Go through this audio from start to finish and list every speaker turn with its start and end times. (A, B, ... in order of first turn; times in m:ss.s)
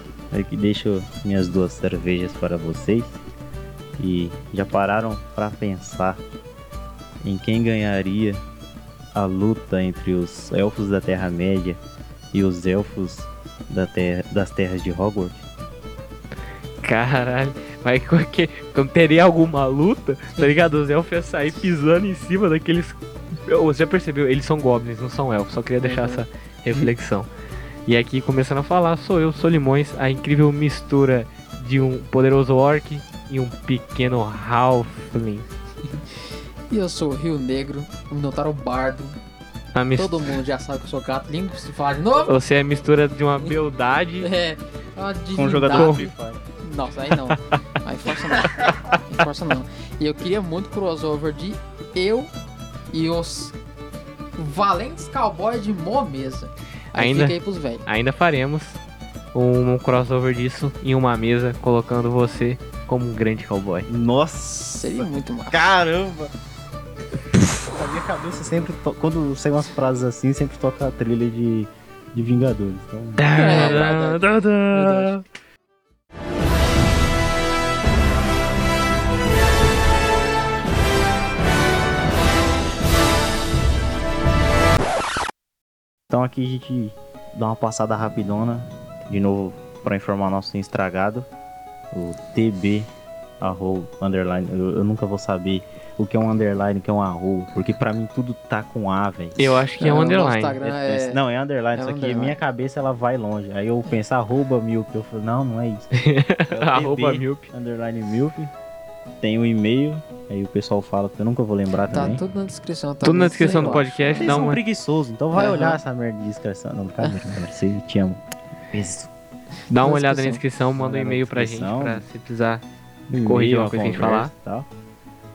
0:00.3-0:03.2 A
0:04.0-0:06.2 A
0:07.2-0:08.4 A
0:09.1-0:11.8 A
0:12.3-0:15.4 A
0:16.8-0:27.3 B
0:25.8-0:26.2 C
0:27.8-0:35.5 B
0:36.7-0:39.2 C
0:39.7-0:40.4 B
0:40.0-0:42.3 C
0:42.3-0:44.3 B
0:44.2-0:52.3 C
0:45.3-0:46.4 A
0:45.7-0:46.0 B
0:52.9-0:53.5 C
0:54.4-0:57.8 C
0:57.0-0:58.8 B
0:59.3-1:03.9 B
1:03.9-1:06.3 A
1:04.7-1:05.6 C
1:07.5-1:13.8 A
1:13.2-1:15.2 B
1:13.4-1:15.2 C
1:26.1-1:31.3 A
1:31.9-1:32.9 A
1:33.4-1:39.5 A
1:39.4-1:40.6 B
1:39.8-1:41.2 C
1:40.6-1:45.8 A
1:41.7-1:42.4 C
1:45.9-1:47.5 B
1:46.5-1:48.5 A
1:49.2-1:52.2 A
1:51.9-1:54.3 C
1:53.0-1:54.6 B
1:54.2-1:59.1 A
1:55.3-1:55.8 C
1:59.7-2:04.3 B
1:59.8-2:00.4 C
2:00.8-2:02.0 A
2:03.1-2:04.7 A